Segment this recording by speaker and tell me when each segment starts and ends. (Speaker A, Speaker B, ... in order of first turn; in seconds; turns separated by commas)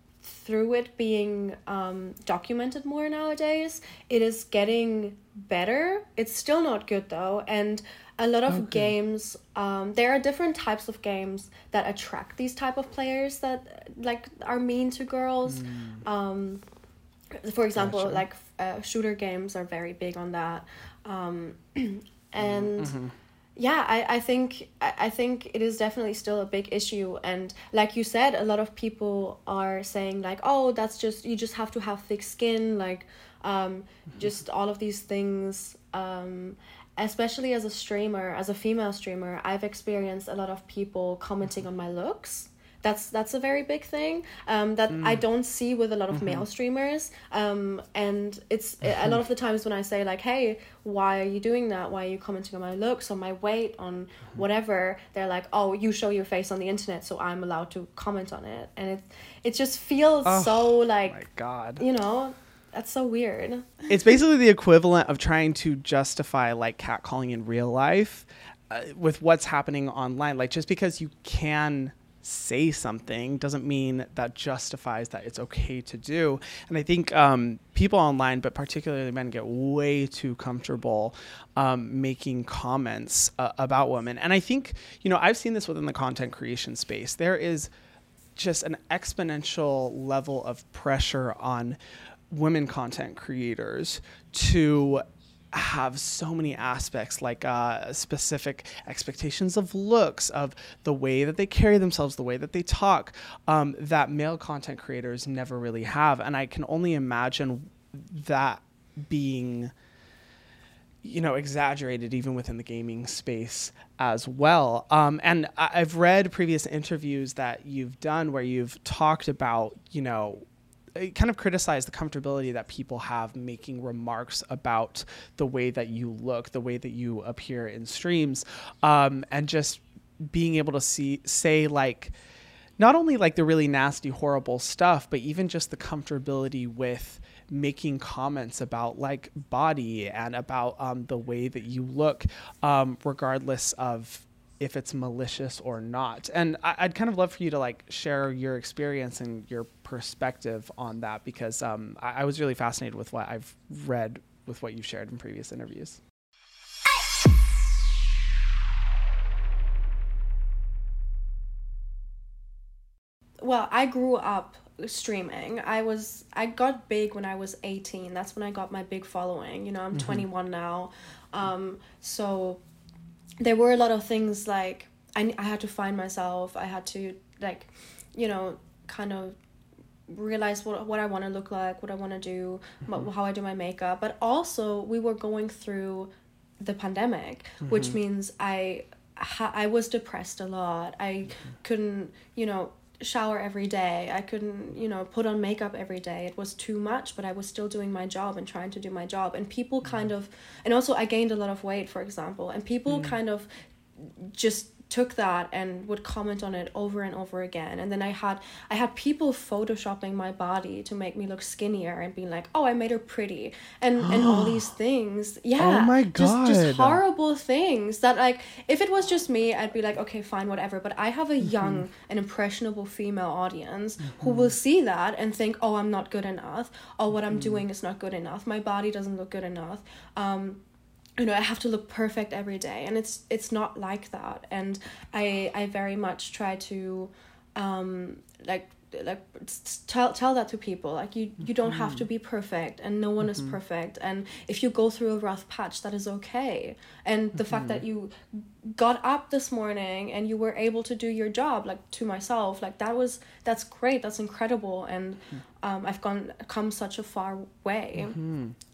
Speaker A: 0.2-16.6, Speaker B: 8.5-8.9, Speaker B: 15.5-16.0, Speaker A: 17.3-22.9, Speaker B: 17.8-18.2, Speaker B: 22.4-23.1, Speaker A: 23.6-61.2, Speaker B: 44.9-45.2, Speaker B: 46.1-46.5, Speaker B: 60.2-61.8, Speaker A: 61.8-63.9, Speaker B: 63.9-87.7, Speaker B: 88.3-91.8, Speaker B: 92.3-109.7, Speaker B: 111.0-120.4, Speaker B: 120.9-132.1, Speaker B: 132.8-156.0, Speaker A: 163.4-172.6, Speaker B: 169.9-170.2, Speaker A: 173.4-179.3, Speaker A: 180.1-230.6, Speaker B: 187.6-188.0, Speaker B: 202.9-203.2, Speaker B: 214.0-214.7, Speaker B: 215.6-217.0, Speaker B: 224.1-224.5, Speaker B: 227.3-227.6, Speaker A: 231.2-258.2, Speaker B: 241.6-242.0, Speaker B: 243.2-243.6, Speaker B: 247.4-247.8, Speaker B: 258.0-258.6